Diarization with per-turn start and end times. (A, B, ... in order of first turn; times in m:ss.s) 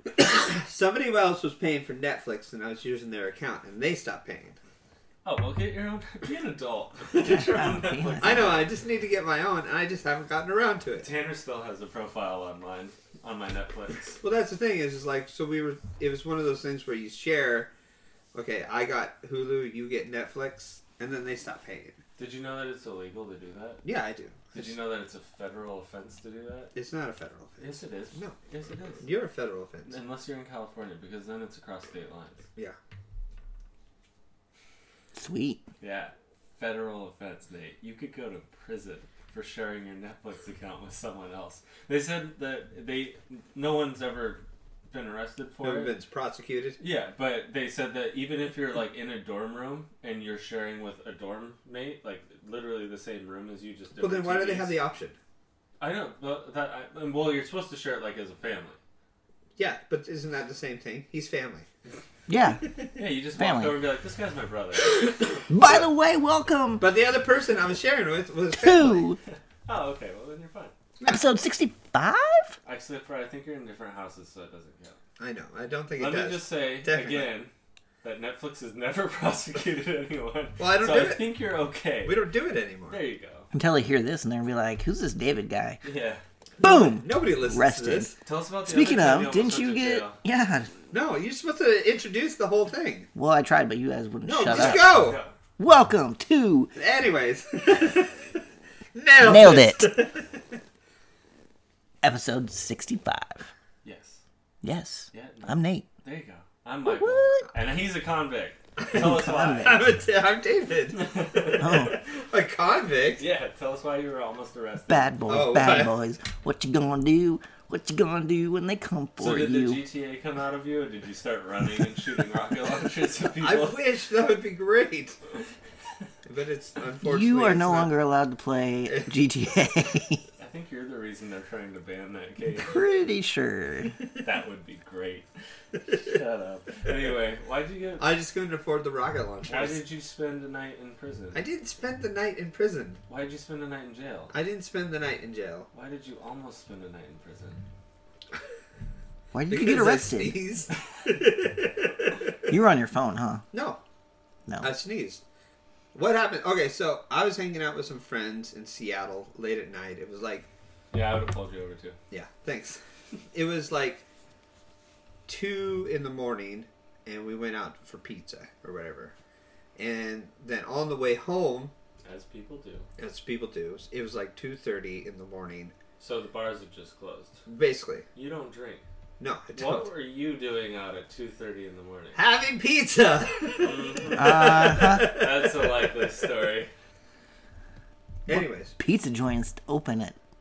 0:00.2-0:04.6 A
0:05.2-0:08.7 B
0:07.2-0:08.6 C
0:08.2-0:11.1 A
0:11.0-0:14.2 B
0:14.2-0:17.7 A
0:18.3-0:22.0 A
0:22.2-0:23.8 B
0:23.8-0:24.8 A
0:24.5-0:26.7 B
0:26.8-0:28.4 A
0:27.6-0:29.0 B
0:29.0-0:30.0 A
0:29.9-0:32.4 B
0:35.2-0:35.6 C
0:35.8-0:45.9 B
0:45.6-0:46.8 A
0:46.8-0:54.8 B
0:54.0-0:55.2 A
0:55.8-0:58.8 B
0:59.6-1:01.7 A
1:02.3-1:02.6 C
1:03.0-1:05.3 B
1:03.4-1:03.8 C
1:05.5-1:06.8 C
1:06.8-1:09.1 A
1:08.6-1:09.2 C
1:09.7-1:10.7 B
1:11.1-1:12.5 C
1:12.6-1:15.0 B
1:15.2-1:17.3 A
1:16.0-1:22.2 B
1:20.6-1:21.3 A
1:22.0-1:23.0 A
1:22.9-1:23.5 B
1:23.5-1:25.8 C
1:25.8-1:26.2 B
1:26.6-1:28.2 A
1:26.6-1:28.1 C
1:28.2-1:30.2 B
1:28.6-1:30.7 C
1:30.9-1:33.1 A
1:33.2-1:35.1 C
1:34.3-1:35.2 A
1:34.5-1:35.3 B
1:35.6-1:36.7 C
1:36.8-1:38.2 A
1:39.0-1:40.3 A
1:39.2-1:39.9 C
1:42.0-1:43.4 C
1:43.8-1:44.2 B
1:44.6-1:45.9 C
1:45.1-1:49.8 B
1:46.9-1:47.5 C
1:48.8-1:53.2 A
1:48.9-1:49.9 C
1:50.9-1:52.0 B
1:51.6-1:52.0 C
1:53.2-1:55.2 B
1:54.9-1:59.8 C
1:55.3-1:55.9 A
1:59.2-2:03.8 B
2:03.4-2:05.2 A
2:06.3-2:08.0 A
2:07.0-2:10.2 C
2:08.9-2:09.1 A
2:10.4-2:12.8 B
2:12.6-2:14.0 C
2:14.2-2:15.3 B
2:15.9-2:18.1 B
2:18.0-2:19.8 A
2:19.5-2:21.4 B
2:21.3-2:23.0 A
2:23.1-2:24.3 B
2:24.3-2:25.7 A
2:25.7-2:27.6 B
2:29.3-2:30.4 C
2:29.5-2:32.2 A
2:32.5-2:33.4 C
2:33.5-2:33.8 A
2:34.6-2:35.2 A
2:36.0-2:40.5 A
2:40.9-2:42.0 B
2:42.1-2:42.8 A
2:43.3-2:44.0 A
2:45.3-2:49.1 A
2:49.8-2:51.7 A
2:52.0-2:52.9 B
2:53.0-2:55.7 A
2:56.0-2:57.4 B
2:57.5-2:58.0 A
2:58.2-2:58.8 B
2:59.2-2:59.9 A
2:59.5-3:02.2 B
3:02.2-3:06.1 A
3:03.6-3:06.7 B
3:04.1-3:05.1 C
3:08.3-3:08.8 A
3:08.3-3:10.2 C